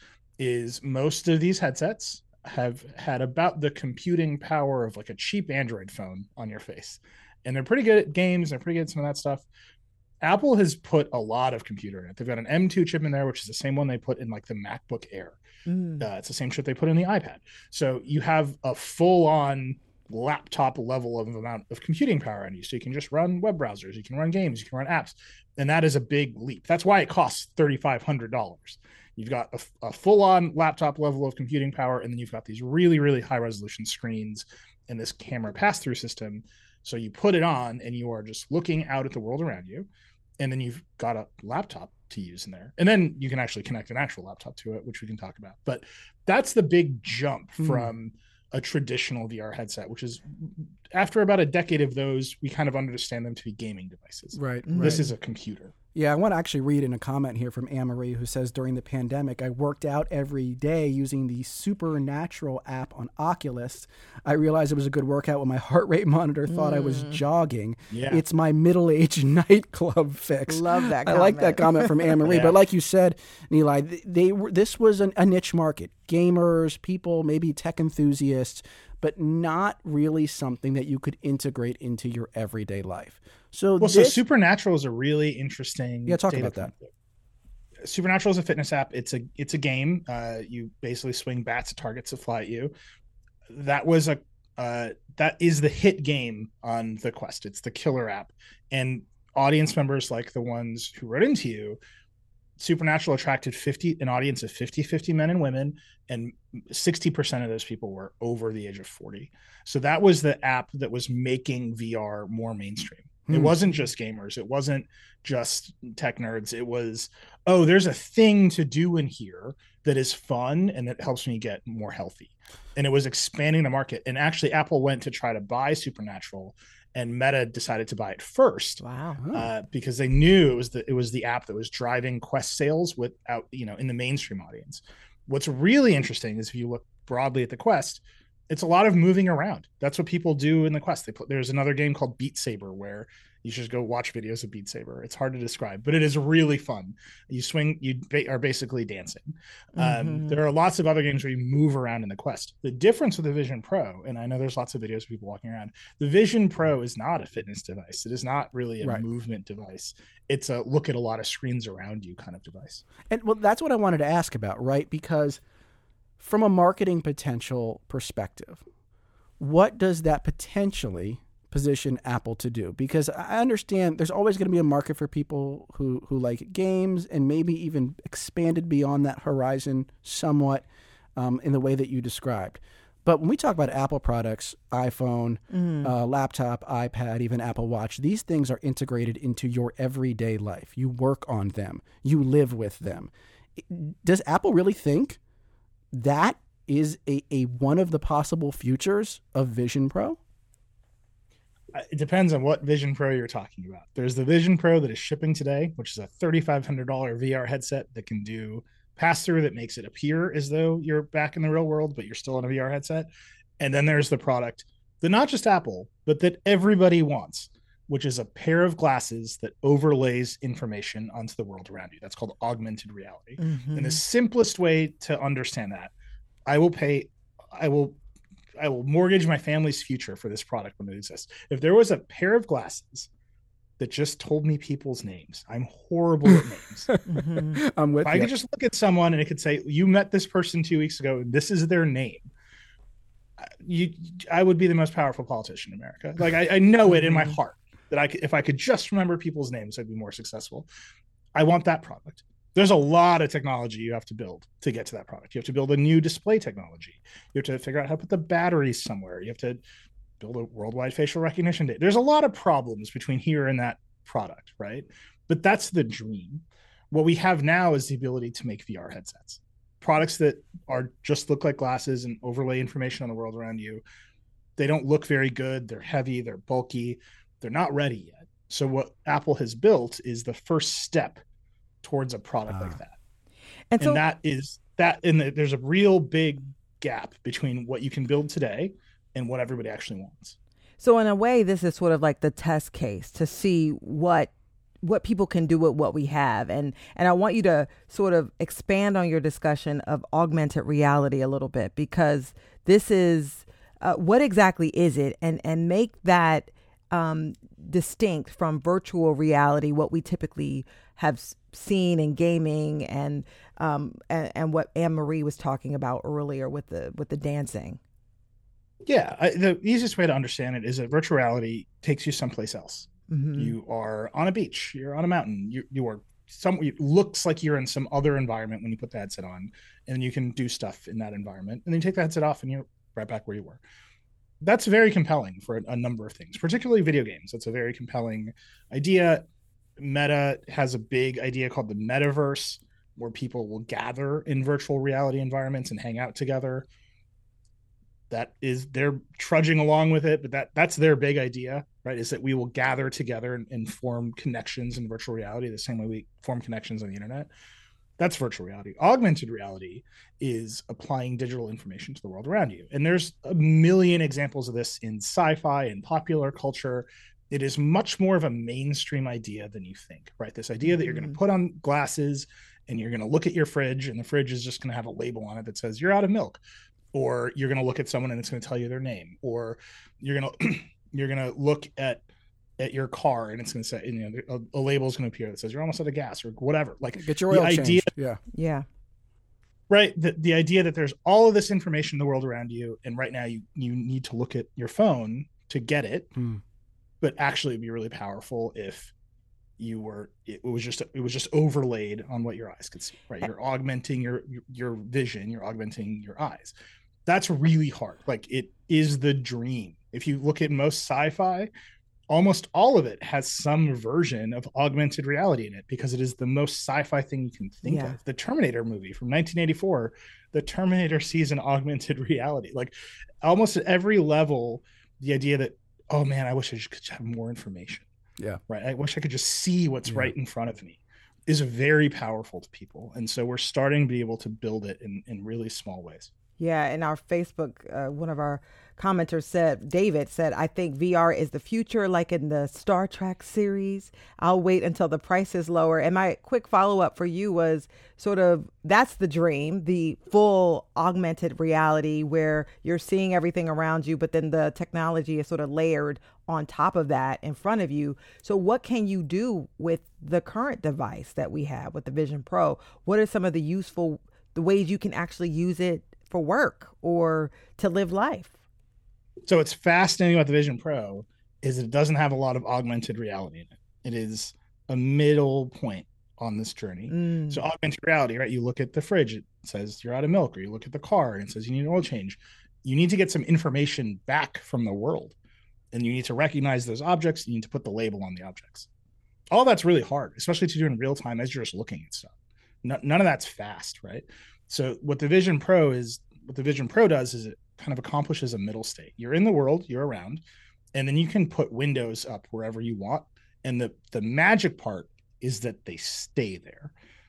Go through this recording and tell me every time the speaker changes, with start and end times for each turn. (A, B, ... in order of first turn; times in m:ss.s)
0:00.4-0:09.4 A
0:10.2-0:15.4 A
0:15.7-0:16.0 B
0:16.0-0:39.9 A
0:40.4-0:55.7 A
0:47.6-0:47.9 C
0:54.3-0:55.0 C
0:54.6-0:55.0 B
0:55.9-1:24.2 C
1:06.5-1:07.2 B
1:07.9-1:08.2 A
1:10.5-1:12.1 B
1:12.2-1:12.5 A
1:23.8-1:26.9 A
1:26.0-1:26.7 C
1:27.8-1:32.7 A
1:33.5-1:41.8 A
1:42.6-2:08.8 A
1:53.3-1:53.6 C
2:08.8-2:09.2 B
2:09.2-2:09.5 C
2:09.3-2:42.8 A
2:29.8-2:30.4 B
2:43.1-2:45.4 C
2:46.2-2:48.6 C
2:49.4-3:00.6 C
3:01.2-3:15.2 C
3:05.5-3:05.9 B
3:15.9-3:20.2 C
3:21.7-3:33.1 A
3:33.6-3:45.9 A
3:43.4-3:44.0 B
3:46.5-3:48.0 A
3:48.6-3:53.1 A
3:53.8-3:56.9 A
3:57.1-3:57.6 B
3:57.5-3:58.3 C
3:58.0-4:02.3 A
4:03.4-4:10.7 A
4:06.9-4:07.3 B
4:11.3-4:19.6 A
4:20.2-4:33.8 A
4:34.6-4:41.2 A
4:41.8-4:43.0 A
4:42.5-4:42.8 C
4:43.7-4:44.0 B
4:43.8-4:50.4 A
4:50.8-5:17.8 B
5:18.9-5:33.6 A
5:23.1-5:23.6 B
5:34.4-5:39.2 A
5:39.8-5:46.6 A
5:48.1-5:57.3 A
5:58.0-6:16.4 A
6:10.7-6:11.2 B
6:16.9-6:22.0 A
6:22.6-6:27.9 A
6:27.0-6:28.2 C
6:28.3-6:28.6 B
6:29.7-6:36.1 A
6:36.1-6:36.4 C
6:37.0-6:38.9 A
6:39.6-6:46.5 A
6:47.0-6:51.5 A
6:52.1-7:07.9 A
6:57.6-6:58.0 B
7:08.5-7:16.1 A
7:09.9-7:10.1 C
7:16.4-7:48.3 B
7:49.3-8:05.1 A
7:56.9-7:57.4 B
8:05.7-8:08.7 A
8:09.3-8:12.1 A
8:12.6-8:20.2 A
8:20.7-8:26.7 A